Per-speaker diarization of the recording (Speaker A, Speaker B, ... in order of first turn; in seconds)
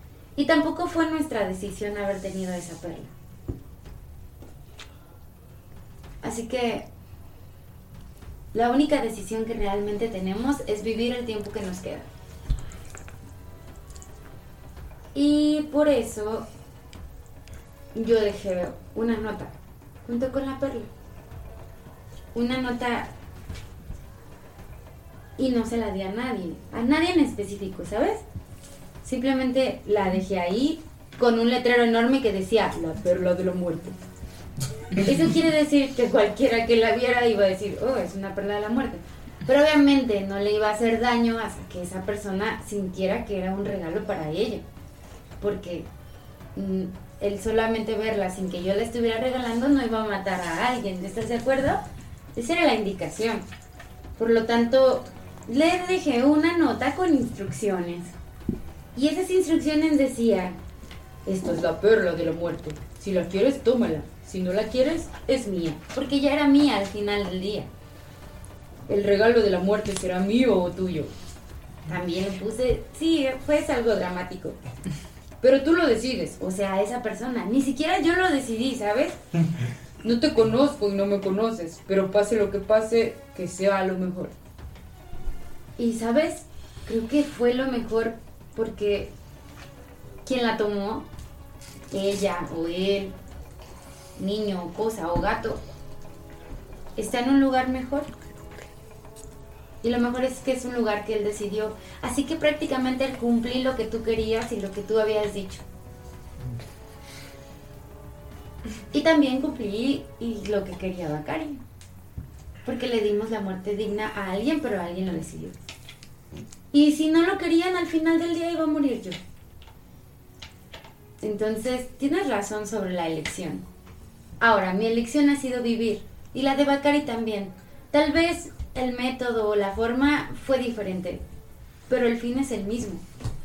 Speaker A: 0.3-3.1, 6.2-6.9, 8.5-12.1, 15.1-16.4, 17.9-19.5, 20.0-20.9, 22.3-23.1, 25.4-28.2, 29.0-34.0, 35.0-44.6, 45.4-45.9, 46.5-51.8, 52.3-53.4, 54.2-58.1, 58.9-60.6, 61.2-67.7, 68.9-71.1, 71.9-74.6, 75.4-79.2, 80.0-84.3, 85.8-89.1, 90.2-91.1, 91.9-93.1, 94.2-95.6, 97.0-98.1, 99.8-105.6, 108.9-111.6, 112.6-115.6, 116.7-119.2, 121.2-123.6, 124.4-131.2, 131.9-133.0